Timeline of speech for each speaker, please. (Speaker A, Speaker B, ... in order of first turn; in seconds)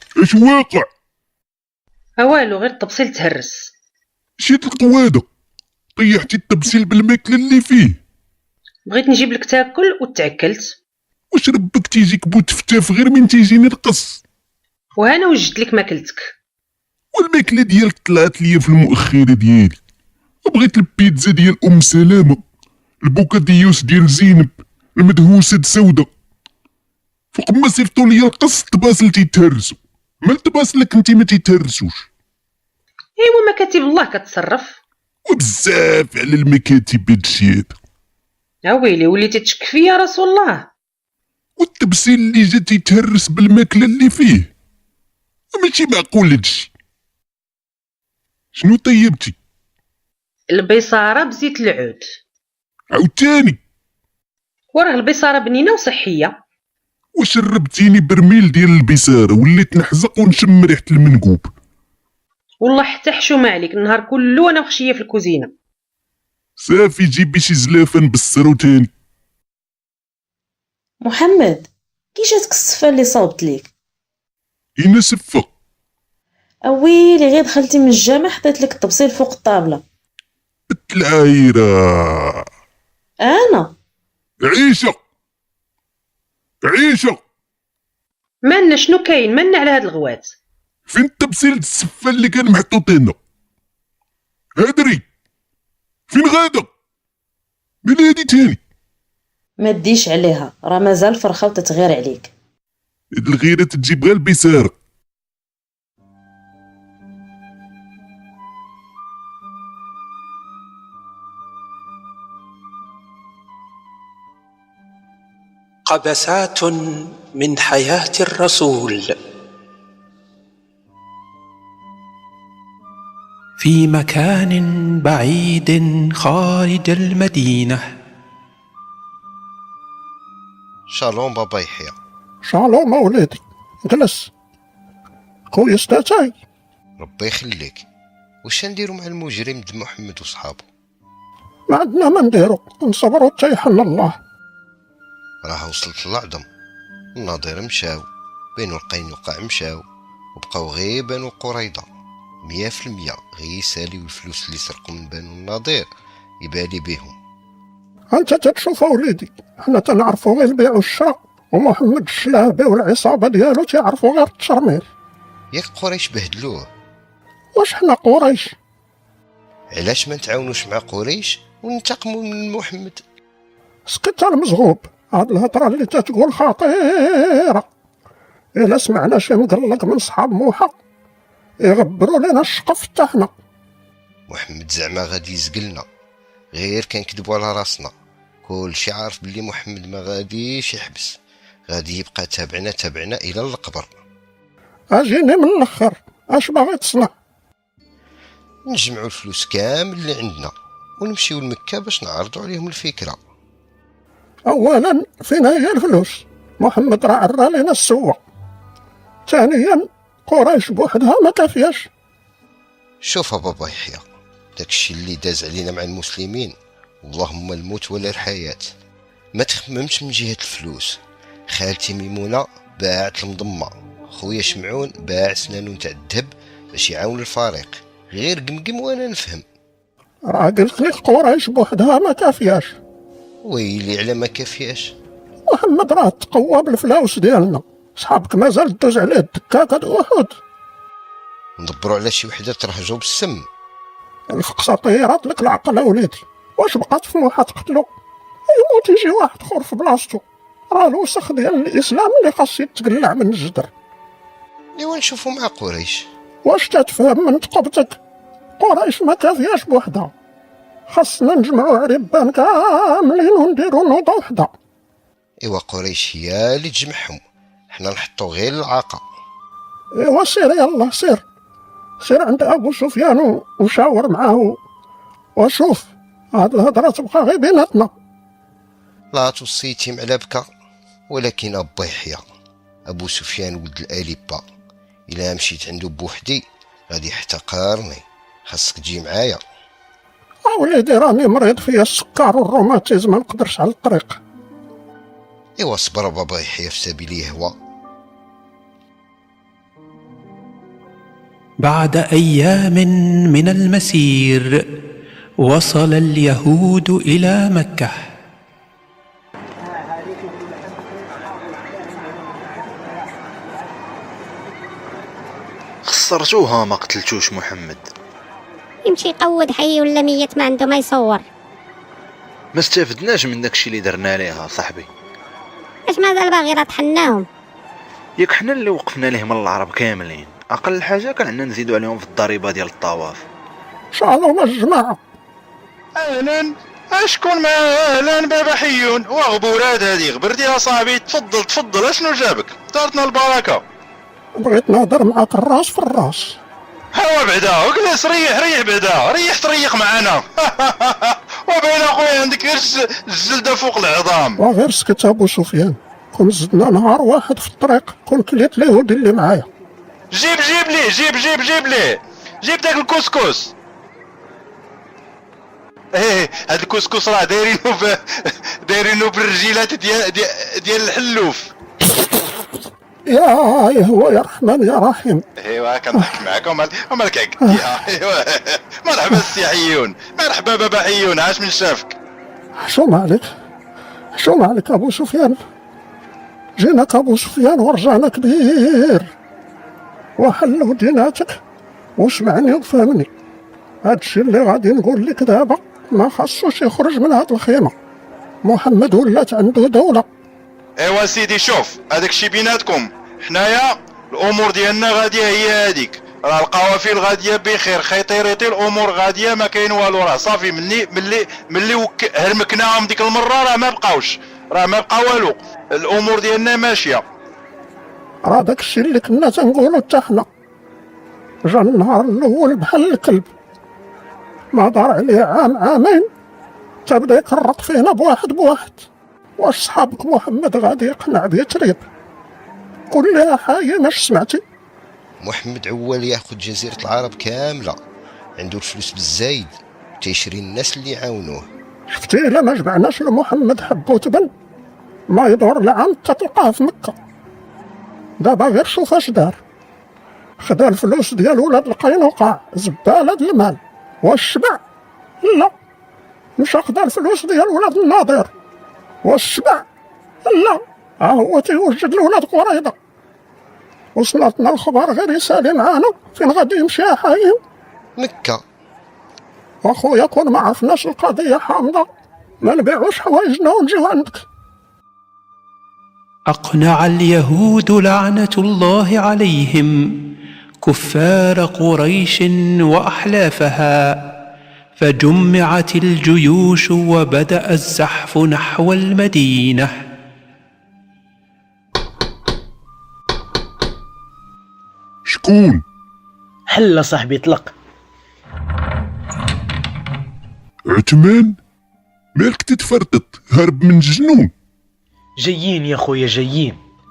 Speaker A: 0.2-0.9, 4.4-5.3, 6.0-8.0, 11.3-14.2, 17.1-19.8, 20.4-22.4, 23.0-26.1, 27.3-32.1, 35.3-37.7, 41.6-44.5, 45.5-46.7, 48.5-49.4, 52.9-53.6, 57.2-61.5, 66.6-68.9, 74.8-75.5, 80.7-82.5, 84.4-85.0, 86.6-87.2, 90.9-93.2, 94.6-95.0, 96.1-96.7, 97.8-98.6, 103.2-104.7, 495.1-495.6, 500.7-501.4, 502.1-504.3
Speaker B: 2.2-3.7, 8.9-10.8, 15.0-16.3, 33.2-34.8, 38.6-40.7, 50.5-52.1, 54.7-56.4, 62.6-65.5, 88.5-90.3
Speaker C: 71.0-73.7, 76.7-79.8, 83.2-83.7, 99.6-102.3
Speaker D: 115.9-119.1, 123.6-127.8, 301.6-304.6, 305.4-308.0, 476.3-479.9, 480.6-484.1, 484.8-489.8
Speaker E: 130.9-131.9, 137.0-137.8, 138.4-140.6, 145.4-146.4, 147.2-148.1, 148.6-149.8, 150.3-151.9, 152.4-155.9, 156.4-157.2, 165.5-166.7, 169.7-173.0, 184.3-185.9, 186.5-187.9, 188.4-191.2, 191.7-194.0, 198.7-203.2, 213.0-214.0, 214.6-218.7, 219.3-229.4, 233.4-234.9, 241.6-243.5, 254.8-256.1, 265.4-267.2, 267.7-269.0, 279.1-280.5, 281.1-282.2, 282.9-284.4, 285.1-289.4, 295.6-297.6, 435.2-437.8, 438.4-441.5, 468.0-468.4
Speaker F: 132.4-134.3, 135.5-136.3, 141.7-144.2, 158.1-164.9, 167.6-168.6, 173.9-177.7, 178.6-180.8, 181.6-183.3, 194.9-197.1, 204.5-208.2, 209.3-211.9, 230.3-232.8, 235.5-240.4, 244.3-247.9, 248.5-253.7, 256.4-258.0, 258.6-260.1, 260.9-264.5, 270.0-271.2, 272.0-274.6, 275.4-277.9, 290.5-294.2, 333.9-335.0, 344.4-346.4, 354.4-359.5, 373.1-375.2, 382.6-383.3, 384.1-385.4, 386.6-389.1, 390.2-391.4, 392.0-393.1, 393.8-397.8, 398.4-400.1, 418.2-420.3, 421.4-423.3, 424.5-426.1, 426.9-428.9, 429.4-431.8, 432.9-434.4, 441.9-444.3, 445.1-447.0, 448.2-449.4, 450.4-454.6, 455.2-455.5, 456.4-458.3, 459.0-459.6, 460.2-462.8, 463.9-467.4, 469.6-471.9, 472.4-474.2
Speaker G: 315.9-317.9, 322.5-324.9, 328.2-333.2
Speaker H: 318.9-321.2, 325.9-327.3
Speaker I: 335.9-343.6, 346.9-354.4, 360.1-363.5, 365.9-371.5, 375.4-381.9, 400.8-417.0
Speaker J: 496.5-497.5, 505.2-506.6